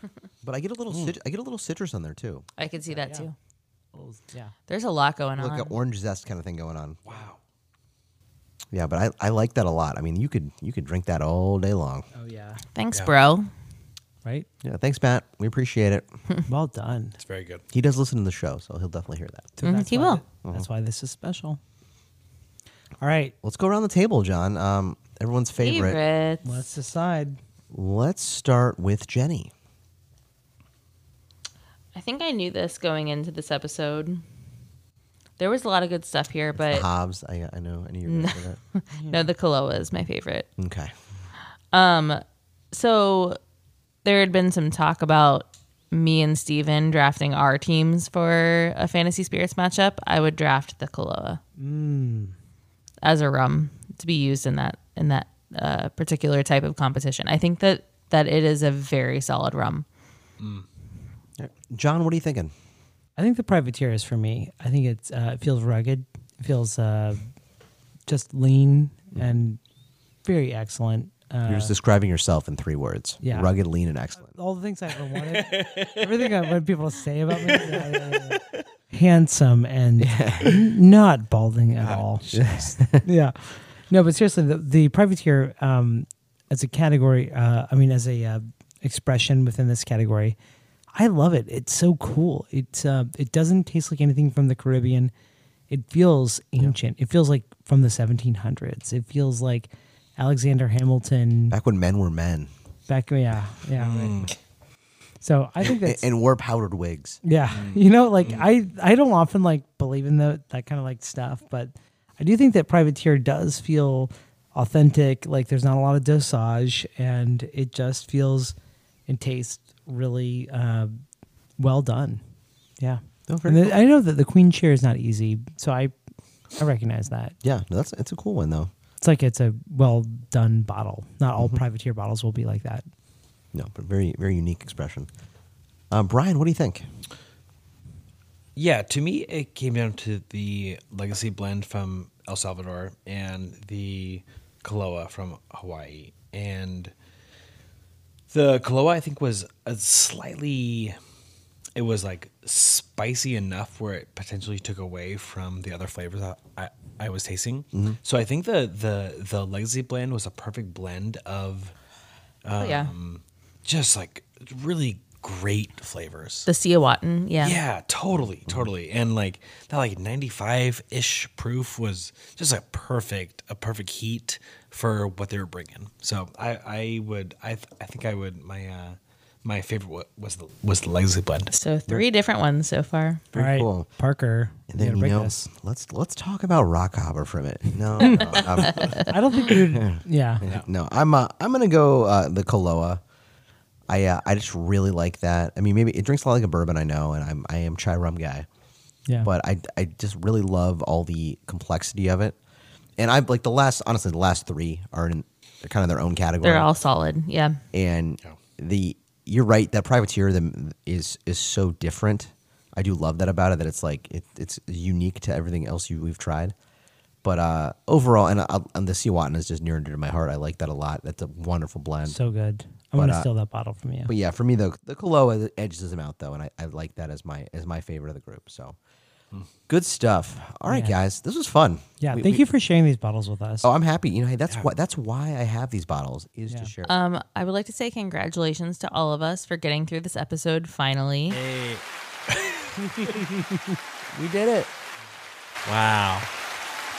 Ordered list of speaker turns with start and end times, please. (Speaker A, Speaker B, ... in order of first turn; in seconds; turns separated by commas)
Speaker A: 0.4-2.5, Speaker B: 2.6-3.3, Speaker C: 2.9-3.3, Speaker C: 3.9-4.5, Speaker B: 4.7-5.8, Speaker A: 5.4-7.0, Speaker D: 7.0-7.4, Speaker A: 8.7-12.1, Speaker C: 12.1-12.6, Speaker B: 12.8-13.5, Speaker A: 14.6-16.1, Speaker C: 16.5-17.2, Speaker D: 17.2-17.6, Speaker A: 17.7-19.5, Speaker C: 19.6-21.6, Speaker B: 19.6-20.2, Speaker C: 23.0-23.4, Speaker A: 23.4-26.0, Speaker B: 25.6-26.4, Speaker C: 26.4-27.4, Speaker A: 27.7-29.5, Speaker B: 31.9-34.2, Speaker B: 35.4-36.9, Speaker A: 36.5-38.6, Speaker B: 38.1-40.5, Speaker C: 39.0-39.3, Speaker A: 40.6-40.9, Speaker B: 41.7-43.4, Speaker B: 44.0-51.4, Speaker C: 51.6-52.4, Speaker B: 53.0-59.9, Speaker D: 60.4-60.7, Speaker A: 61.4-62.5, Speaker C: 63.2-67.3, Speaker C: 68.1-69.6, Speaker C: 70.2-71.7, Speaker A: 71.5-74.3, Speaker C: 73.2-73.5, Speaker C: 74.2-82.2, Speaker D: 75.2-76.4, Speaker D: 77.5-78.2, Speaker A: 80.0-80.6, Speaker D: 81.8-82.7, Speaker A: 82.3-83.0, Speaker C: 83.0-90.4, Speaker C: 90.9-95.1, Speaker C: 95.7-101.6, Speaker A: 101.5-102.5, Speaker C: 102.9-104.3, Speaker D: 103.8-104.3, Speaker C: 105.2-106.1, Speaker A: 105.6-107.2, Speaker C: 107.2-118.5, Speaker D: 107.5-108.5, Speaker C: 119.1-121.0, Speaker C: 121.6-122.2, Speaker C: 122.8-125.9, Speaker A: 123.3-123.8, Speaker C: 126.6-127.4, Speaker A: 127.4-128.7, Speaker C: 129.0-132.8, Speaker A: 131.4-131.6, Speaker A: 133.5-135.1, Speaker A: 135.9-136.9, Speaker D: 138.6-146.9, Speaker D: 148.3-151.0, Speaker D: 151.8-161.7, Speaker A: 157.7-158.0, Speaker D: 162.4-166.5, Speaker B: 162.6-162.9, Speaker B: 166.5-167.6, Speaker D: 167.4-181.5, Speaker B: 181.5-183.2, Speaker A: 183.3-183.9, Speaker C: 183.3-185.5, Speaker A: 184.7-193.0, Speaker B: 188.0-189.1, Speaker C: 189.0-190.4, Speaker A: 193.9-198.5, Speaker A: 199.2-202.4, Speaker A: 203.0-206.7, Speaker B: 206.4-207.6, Speaker A: 207.7-216.6, Speaker A: 217.2-222.2, Speaker C: 222.1-224.1, Speaker A: 223.0-223.3, Speaker A: 224.1-228.8, Speaker A: 229.7-232.4, Speaker C: 230.7-230.9, Speaker C: 232.0-233.7, Speaker A: 233.6-237.0, Speaker B: 236.8-241.4, Speaker D: 241.3-243.4, Speaker A: 244.1-244.7, Speaker D: 245.7-246.3